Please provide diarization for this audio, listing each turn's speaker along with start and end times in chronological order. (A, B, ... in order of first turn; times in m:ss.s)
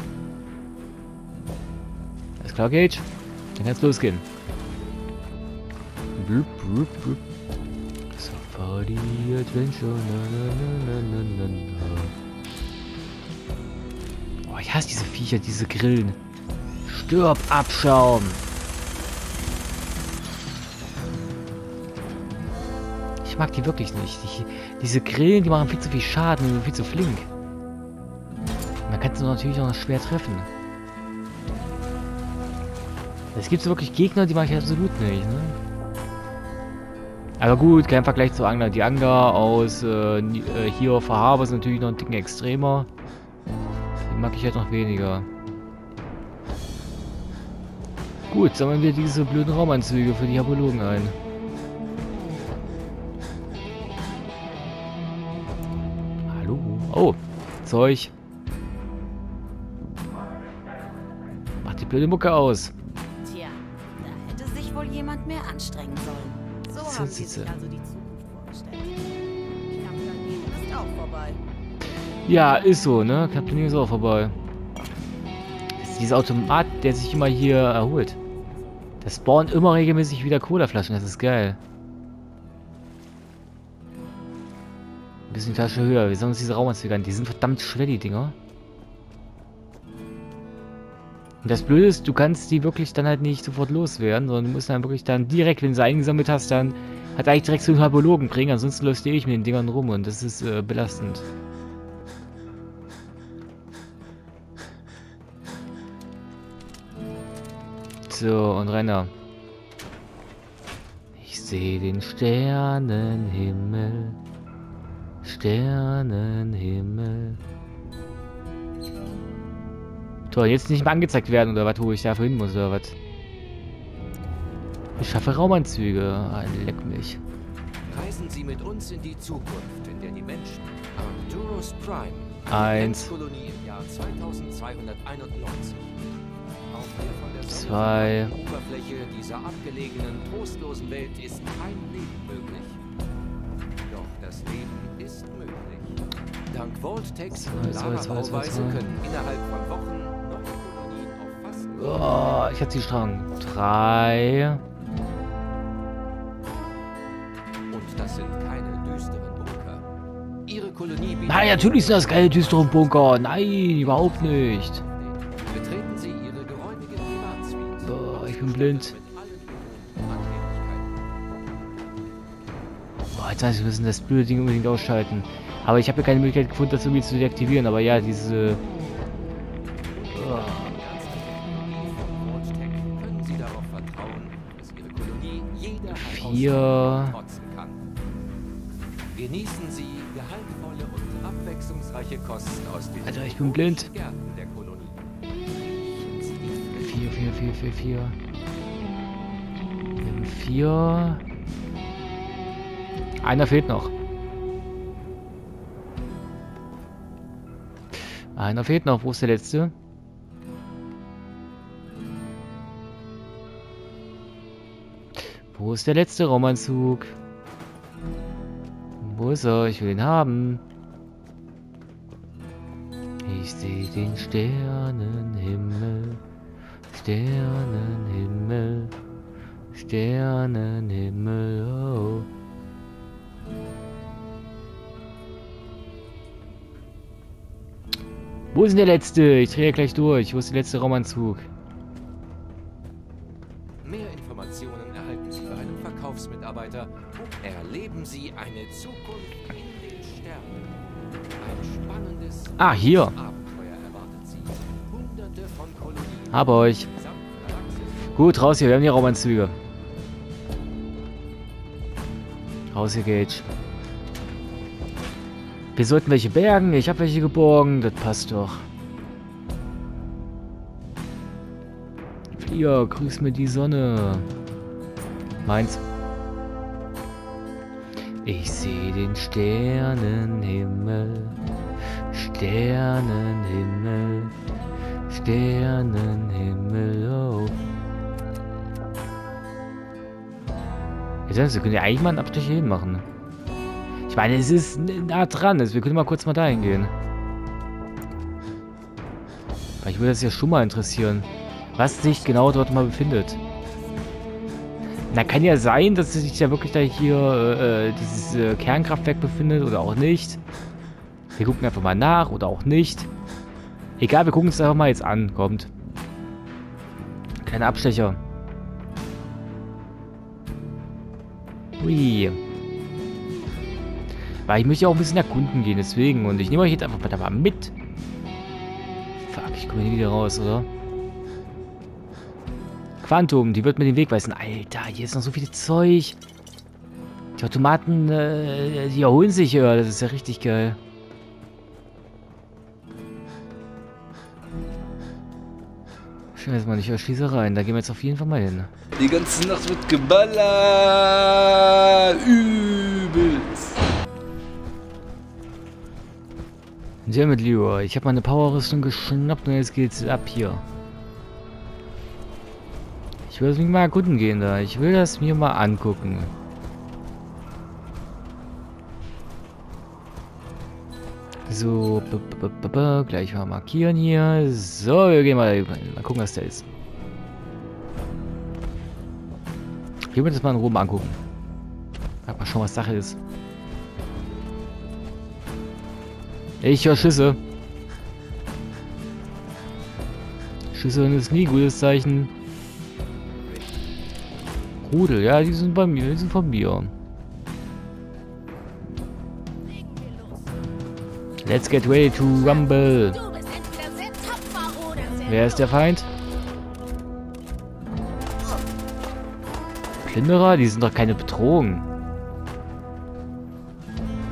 0:02.4-0:03.0 A
0:03.6-0:04.2 A
0:06.2-0:07.2 A
0:08.1-0:12.1 A
0:14.4-0:16.2 A
0:16.8-0:18.4 A
0:23.2-0:27.3 A
0:28.9-0:30.5 A
0:33.3-0:35.6 A
0:37.4-0:42.9 A
0:44.1-0:45.3 A
0:48.3-0:51.1 A
0:56.3-0:58.1 A
1:01.6-1:02.7 A
1:03.2-1:08.9 B
1:06.8-1:07.5 A
1:09.7-1:11.4 B
1:12.3-1:14.3 A
1:15.8-1:18.2 A
1:19.0-1:21.6 A
1:25.3-1:28.3 A
1:31.4-1:41.2 A
1:48.1-1:49.1 A
1:51.2-1:54.2 A
1:55.2-1:57.4 A
2:00.3-2:02.9 A
2:05.0-2:07.2 A
2:07.9-2:16.0 C
2:12.5-2:13.1 A
2:16.7-2:22.8 C
2:17.5-2:18.3 A
2:23.9-2:32.4 C
2:27.3-2:28.8 A
2:31.7-2:34.6 A
2:37.7-2:39.8 C
2:40.4-2:50.9 C
2:41.3-2:44.8 A
2:47.8-2:48.9 A
2:53.1-2:58.6 A
3:00.0-3:07.8 C
3:00.1-3:00.7 A
3:05.9-3:07.2 A
3:09.1-3:17.3 C
3:13.0-3:13.9 A
3:16.8-3:18.2 A
3:20.0-3:21.2 A
3:23.2-3:23.9 A
3:28.4-3:29.7 A
3:35.2-3:37.1 A
3:39.0-3:40.6 A
3:43.2-3:46.2 A
3:46.9-3:48.9 A
3:49.7-3:52.3 A
3:58.5-4:01.4 A
4:03.8-4:10.7 C
4:11.4-4:18.2 C
4:12.6-4:13.1 A
4:16.3-4:16.9 A
4:18.1-4:19.6 A
4:22.7-4:23.4 A
4:25.8-4:28.6 A
4:32.3-4:34.3 A
4:35.4-4:35.8 A
4:38.2-4:41.4 A
4:42.1-4:44.3 A
4:45.1-4:47.5 A
4:51.3-4:53.0 A
4:54.1-4:56.9 A
4:59.8-5:03.4 A
5:05.1-5:10.4 A
5:11.4-5:13.1 A
5:14.0-5:15.7 A
5:17.4-5:18.2 A
5:21.8-5:22.4 A
5:24.5-5:27.7 A
5:29.2-5:30.7 A
5:33.0-5:36.2 A
5:37.4-5:40.8 A
5:46.4-5:48.7 A
5:49.0-5:53.7 D
5:57.0-6:00.6 A
6:03.3-6:06.3 A
6:11.5-6:16.6 A
6:20.1-6:21.2 A
6:22.2-6:23.2 A
6:26.6-6:27.4 A
6:30.7-6:32.3 A
6:34.8-6:36.9 A
6:39.7-6:40.1 B
6:41.4-6:43.2 A
6:42.2-6:45.7 B
6:45.2-6:46.1 A
6:50.0-6:51.8 A